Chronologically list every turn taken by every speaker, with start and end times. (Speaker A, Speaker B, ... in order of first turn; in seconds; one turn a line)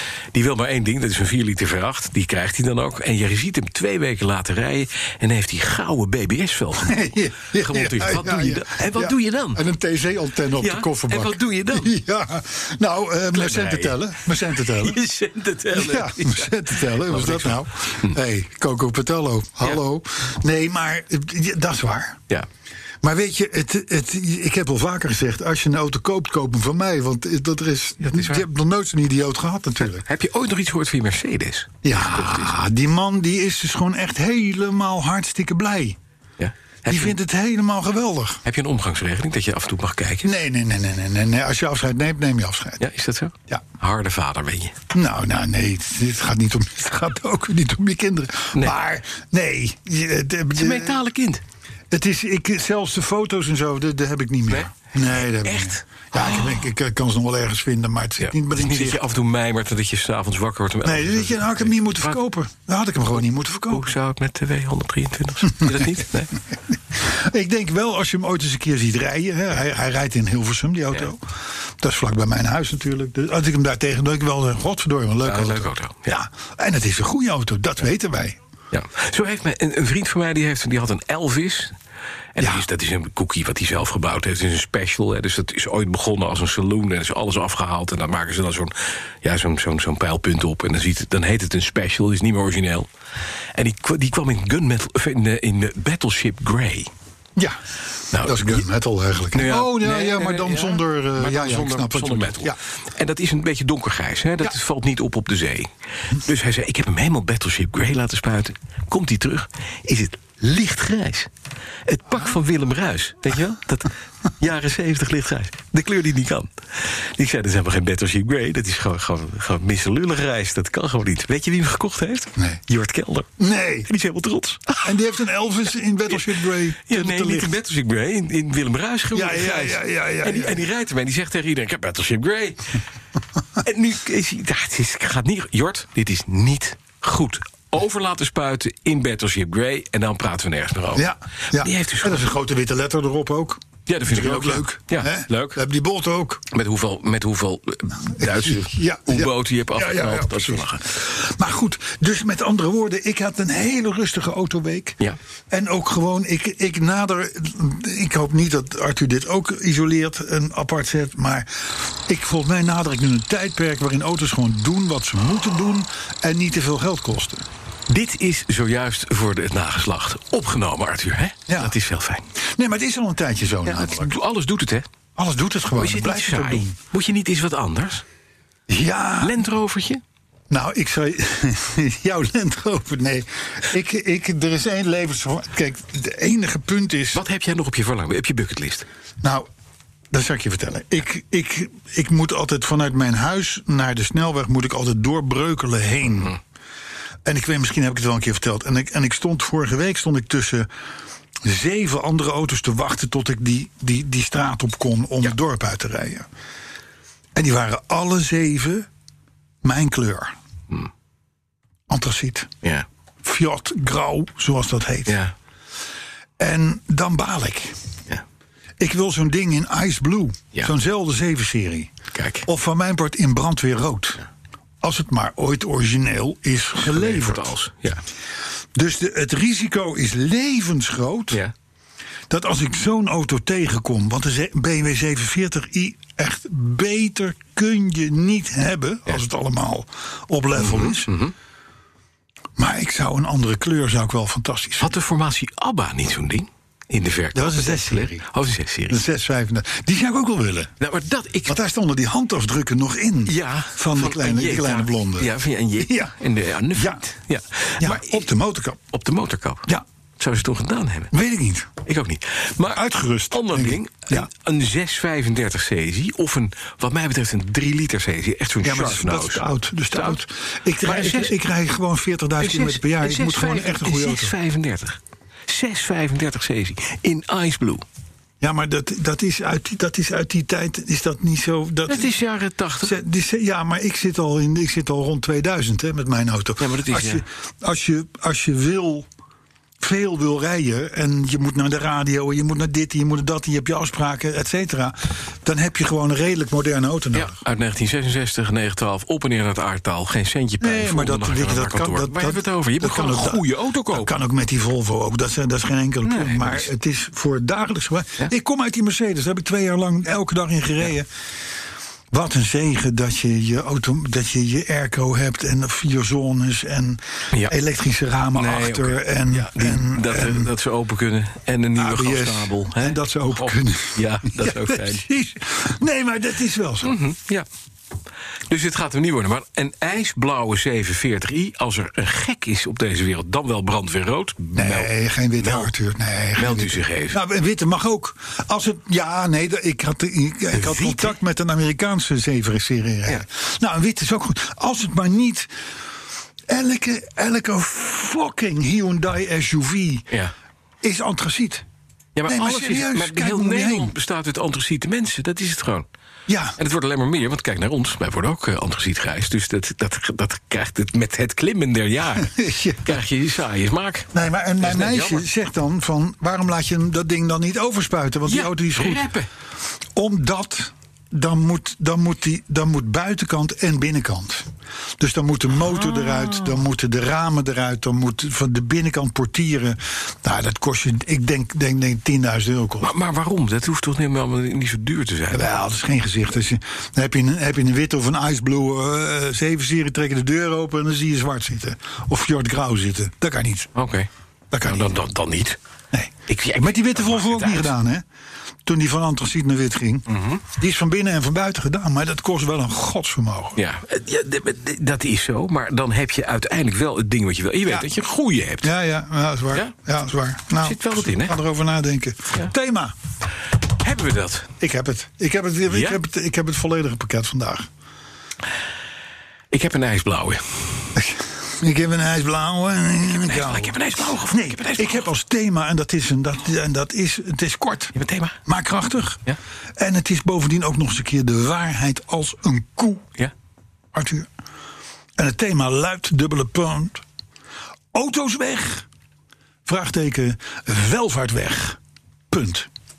Speaker A: 0.3-7.0
Speaker B: 6.8-15.0
Speaker A: 7.6-9.7
Speaker A: 10.6-11.9
Speaker A: 13.3-18.2
Speaker B: 15.7-22.2
Speaker B: 23.0-30.1
Speaker A: 28.0-28.4
Speaker A: 30.0-32.5
Speaker B: 31.8-36.0
Speaker A: 36.4-37.2
Speaker B: 36.9-38.4
Speaker A: 38.5-40.3
Speaker B: 40.2-42.8
Speaker A: 42.8-44.8
Speaker B: 44.9-51.0
Speaker A: 50.5-51.4
Speaker B: 51.9-59.0
Speaker A: 55.3-56.7
Speaker A: 58.2-62.2
Speaker B: 60.8-63.9
Speaker A: 63.7-66.3
Speaker B: 66.7-78.4
Speaker A: 75.2-76.2
Speaker A: 78.7-81.8
Speaker A: 82.3-92.9
Speaker B: 82.4-82.7
Speaker A: 93.5-96.9
Speaker A: 98.1-98.6
Speaker B: 98.2-102.6
Speaker A: 99.3-111.3
Speaker A: 111.9-123.3
Speaker B: 123.4-123.9
Speaker A: 123.9-125.0
Speaker B: 124.8-127.5
Speaker A: 126.9-132.8
Speaker B: 129.1-130.6
Speaker A: 133.6-142.2
Speaker B: 140.9-146.4
Speaker A: 143.9-145.6
Speaker A: 146.5-150.9
Speaker B: 148.2-155.0
Speaker B: 155.5-167.5
Speaker A: 167.9-172.2
Speaker B: 171.5-171.8
Speaker B: 172.5-174.2
Speaker A: 173.7-174.9
Speaker B: 175.2-176.8
Speaker A: 175.7-178.0
Speaker B: 178.7-179.4
Speaker A: 179.2-180.0
Speaker B: 180.5-187.2
Speaker A: 187.1-188.9
Speaker B: 189.2-189.5
Speaker B: 190.1-196.4
Speaker B: 197.2-200.7
Speaker B: 201.4-206.3
Speaker B: 207.3-208.9
Speaker B: 209.6-210.3
Speaker B: 211.9-212.5
Speaker B: 213.2-215.2
Speaker A: 215.1-215.3
Speaker B: 216.4-217.8
Speaker B: 218.8-221.9
Speaker A: 222.1-222.5
Speaker B: 222.4-224.2
Speaker B: 224.8-227.5
Speaker A: 226.8-228.0
Speaker B: 228.8-231.4
Speaker B: 232.3-241.1
Speaker A: 240.6-241.3
Speaker B: 242.6-244.9
Speaker A: 244.8-249.0
Speaker B: 247.3-248.2
Speaker B: 248.9-250.7
Speaker A: 250.8-251.6
Speaker B: 251.5-256.1
Speaker A: 253.3-258.3
Speaker B: 256.7-257.0
Speaker B: 257.8-258.8
Speaker A: 258.9-259.7
Speaker A: 260.2-261.1
Speaker B: 261.1-261.8
Speaker A: 261.8-270.2
Speaker B: 262.7-264.3
Speaker B: 268.6-274.3
Speaker A: 270.8-271.4
Speaker A: 272.4-277.8
Speaker B: 278.4-282.1
Speaker A: 281.9-283.0
Speaker B: 282.8-289.1
Speaker A: 286.6-287.2
Speaker B: 289.8-297.4
Speaker A: 297.1-304.1
Speaker B: 300.6-311.1
Speaker A: 306.1-306.7
Speaker B: 312.1-320.5
Speaker A: 318.4-325.0
Speaker B: 321.8-326.9
Speaker A: 326.8-327.5
Speaker A: 328.5-335.7
Speaker B: 334.6-345.5
Speaker A: 336.4-337.2
Speaker A: 340.5-341.1
Speaker B: 346.5-350.1
Speaker B: 350.8-351.6
Speaker A: 352.2-355.9
Speaker B: 352.3-353.9
Speaker B: 356.3-356.6
Speaker A: 356.6-364.1
Speaker B: 362.2-363.0
Speaker B: 364.1-369.1
Speaker A: 364.6-365.2
Speaker A: 368.3-369.3
Speaker B: 370.0-382.9
Speaker A: 375.7-376.6
Speaker A: 382.8-385.6
Speaker B: 385.3-393.7
Speaker A: 393.8-394.1
Speaker B: 394.5-395.0
Speaker A: 394.6-395.6
Speaker B: 395.9-398.1
Speaker A: 396.3-397.7
Speaker B: 398.6-403.6
Speaker A: 400.1-400.4
Speaker A: 403.6-408.7
Speaker B: 408.6-412.9
Speaker A: 410.6-411.4
Speaker A: 413.8-414.5
Speaker B: 414.6-417.7
Speaker A: 415.7-416.0
Speaker A: 419.5-420.9
Speaker B: 421.0-427.9
Speaker A: 423.1-425.1
Speaker A: 427.9-428.4
Speaker B: 428.5-429.2
Speaker B: 429.8-433.1
Speaker B: 433.9-434.3
Speaker B: 435.2-437.0
Speaker B: 437.9-438.9
Speaker B: 439.7-441.8
Speaker B: 442.3-442.7